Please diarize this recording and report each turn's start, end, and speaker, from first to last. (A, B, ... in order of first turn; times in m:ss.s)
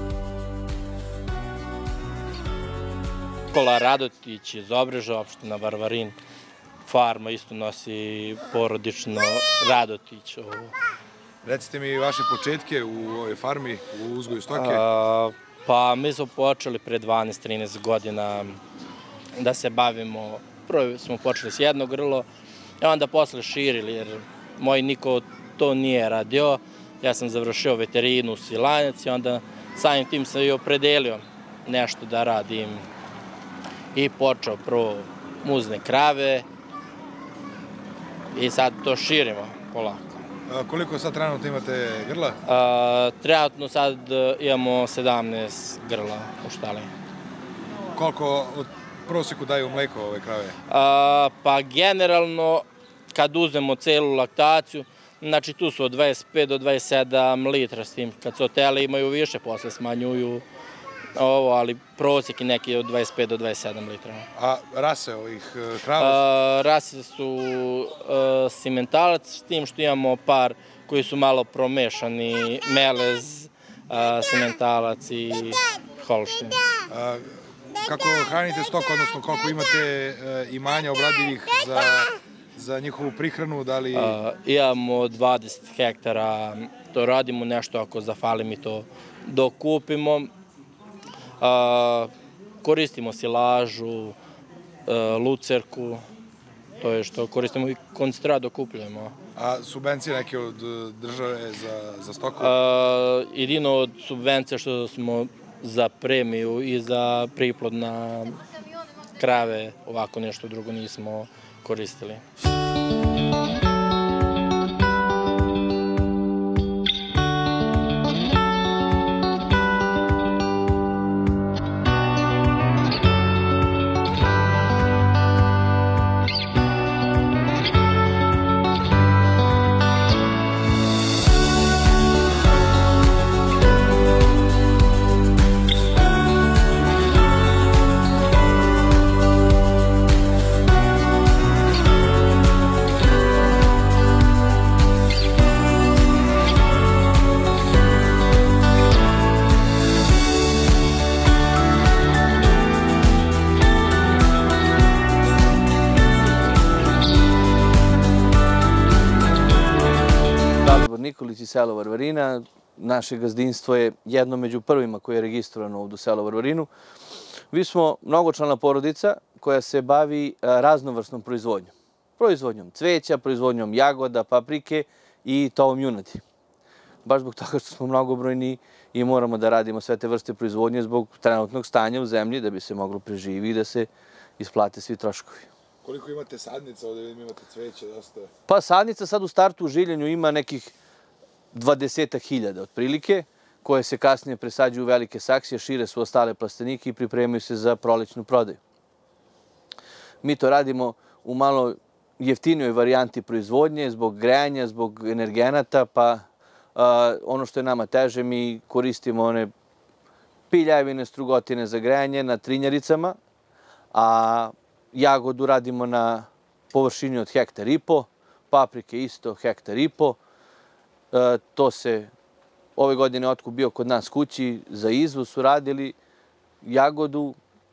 0:03.5-0:06.2 A
0:06.8-0:10.7 A
0:11.4-0:14.8 B
0:14.5-0:18.6 A
0:19.4-0:22.3 A
0:22.8-0:32.8 A
0:33.9-0:36.5 A
0:38.3-0:40.3 A
0:40.5-0:42.4 B
0:42.4-0:46.9 A
0:47.9-0:50.6 B
0:50.7-1:00.4 A
1:01.1-1:04.2 A
1:04.3-1:06.2 B
1:05.9-1:16.6 A
1:16.9-1:17.2 B
1:17.8-1:24.2 B
1:23.9-1:30.3 A
1:31.4-1:32.1 A
1:32.6-1:34.2 A
1:34.8-1:36.0 A
1:36.8-1:39.1 A
1:39.4-1:42.5 B
1:42.4-1:48.4 A
1:49.2-1:52.2 A
2:40.6-2:46.7 C
2:47.5-2:56.2 C
2:57.0-3:05.5 C
3:05.8-3:08.3 B
3:08.5-3:10.7 C
3:11.5-3:18.6 C
3:20.2-3:26.2 C
3:26.7-3:29.5 C
3:30.5-3:33.2 C
3:33.9-3:40.2 C
3:41.1-3:42.1 C
3:42.8-3:46.0 C
3:46.6-3:47.4 C